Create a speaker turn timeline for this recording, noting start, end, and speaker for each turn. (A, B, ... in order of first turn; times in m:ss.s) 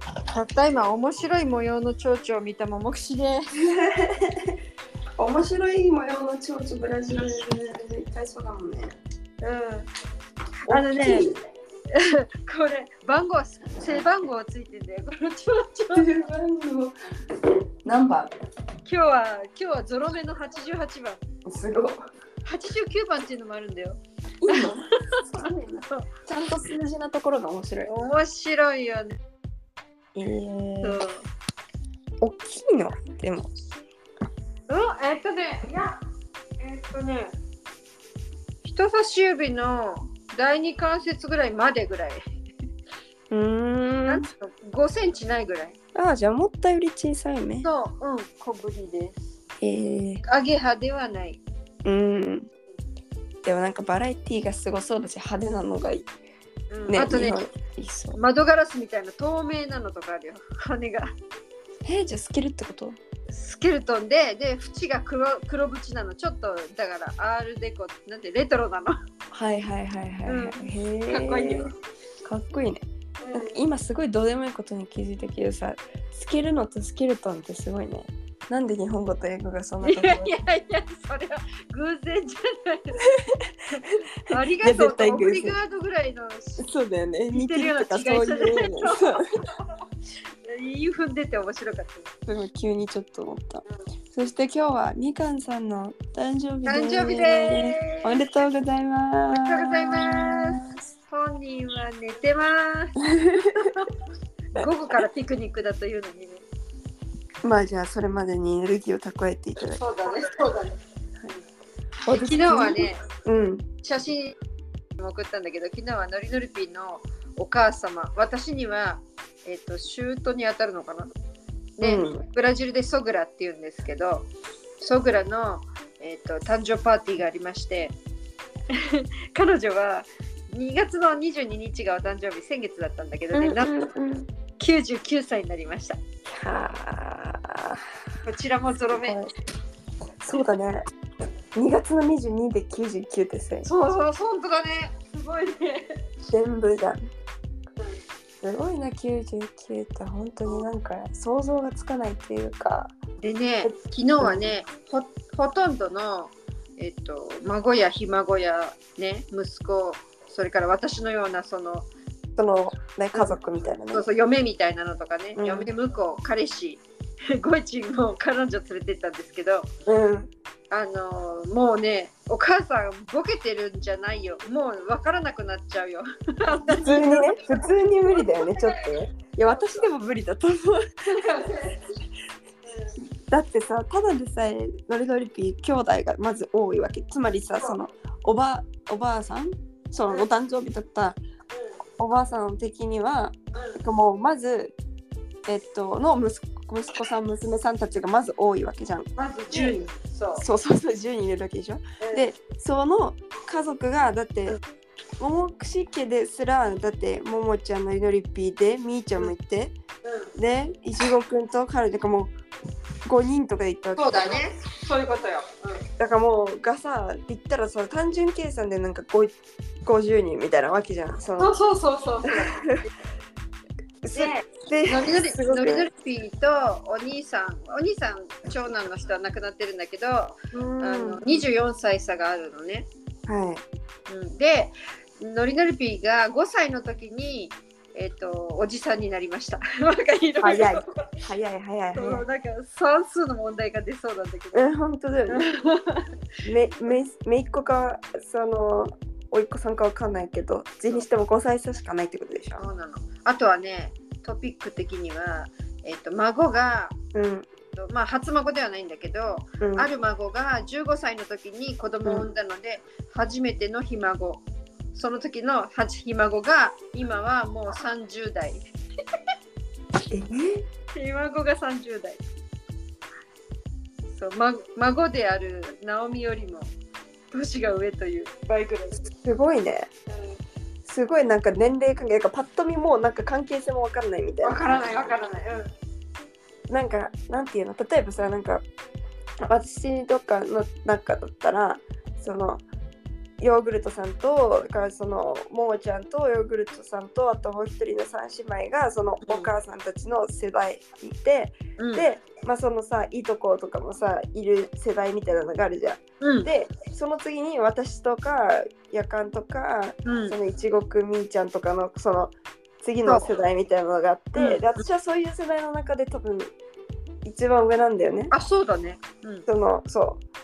0:00.3-0:03.5 A
0:03.6-0:04.6 B
0:05.2-0:08.9 B
0:09.4-0:09.9 A
0:10.6-0:11.3 A
0:10.7-0:11.3 B
0:11.9-0:16.1 A
0:15.9-0:16.9 B
0:17.8-0:18.3 B
0:18.8-0:21.2 A
0:21.4-0:22.0 B
0:22.4-0:26.0 A
0:24.4-0:27.9 B
0:27.8-0:29.2 A
0:30.2-0:31.0 B
0:30.8-0:31.2 A
0:32.2-0:33.5 B
0:34.7-0:36.0 A
0:36.6-0:37.3 A
0:38.6-0:42.2 A
0:43.3-0:44.3 B
0:44.1-0:45.8 A
0:46.0-0:47.7 B
0:47.6-0:49.3 A
0:49.6-0:50.2 B
0:50.2-0:51.4 A
0:51.8-0:52.5 B
0:53.4-0:56.1 B
0:56.7-0:57.4 A
0:56.9-0:58.2 B
0:58.2-1:01.1 A
1:01.8-1:03.0 B
1:03.3-1:09.0 A
1:09.3-1:11.7 B
1:10.3-1:11.7 A
1:12.2-1:20.3 B
1:13.2-1:13.6 A
1:19.8-1:23.0 A
1:23.7-1:26.7 A
1:24.3-1:25.6 B
1:26.6-1:29.2 B
1:27.3-1:29.2 A
1:30.4-1:32.1 A
1:32.3-1:40.8 B
1:36.6-1:38.2 A
1:39.3-1:43.9 A
1:43.0-1:43.8 B
1:44.5-1:46.4 A
1:47.4-1:49.8 B
1:49.7-1:50.8 A
1:52.1-1:53.7 B
1:52.1-1:53.0 A
1:53.8-1:54.4 A
1:55.0-2:01.1 A
2:01.8-2:04.3 A
2:01.8-2:02.2 B
2:04.8-2:08.0 A
2:08.7-2:13.7 A
2:13.3-2:14.3 B
2:14.6-2:16.0 A
2:16.3-2:17.8 B
2:18.3-2:19.2 A
2:19.0-2:19.3 B
2:20.2-2:20.8 B
2:21.6-2:23.7 B
2:23.6-2:26.0 A
2:26.3-2:27.0 B
2:28.4-2:32.9 B
2:33.2-2:41.9 A
2:33.6-2:34.5 B
2:42.4-2:44.0 B
2:43.9-2:49.7 A
2:45.4-2:45.7 B
2:49.9-2:50.3 B
2:50.7-2:57.5 A
2:56.7-3:01.6 B
2:58.1-2:58.9 A
3:01.1-3:01.8 A
3:02.7-3:02.9 A
3:03.3-3:11.2 B
3:12.0-3:14.7 B
3:15.5-3:19.8 B
3:19.2-3:20.4 A
3:20.4-3:24.6 B
3:25.2-3:29.7 B
3:30.4-3:32.3 B
3:33.0-3:34.4 B
3:34.0-3:35.8 A
3:36.0-3:39.3 B
3:39.8-3:41.6 B
3:41.4-3:42.6 A
3:42.3-3:42.8 B
3:44.0-3:45.9 B
3:44.1-3:52.9 A
3:50.5-3:51.2 B
3:53.3-3:53.6 B
3:54.1-4:01.1 A
4:00.4-4:02.2 B
4:01.9-4:04.7 A
4:04.5-4:05.4 B
4:05.3-4:06.1 A
4:06.5-4:12.6 B
4:12.6-4:17.0 A
4:17.1-4:17.5 B
4:17.7-4:24.4 A
4:19.6-4:19.9 B
4:24.9-4:28.6 A
4:30.1-4:30.6 B
4:30.9-4:32.2 A
4:34.1-4:36.7 A
4:37.3-4:39.0 A
4:39.1-4:39.9 B
4:40.9-4:45.2 B
4:44.4-4:45.7 A
4:46.7-4:48.6 B
4:49.4-4:52.6 B
4:53.4-5:16.5 B
4:59.2-4:59.5 A
5:01.8-5:02.0 A
5:06.2-5:06.5 A
5:10.0-5:10.4 A
5:14.4-5:14.6 A
5:17.2-5:18.3 B
5:18.3-5:19.5 A
5:19.5-5:20.2 B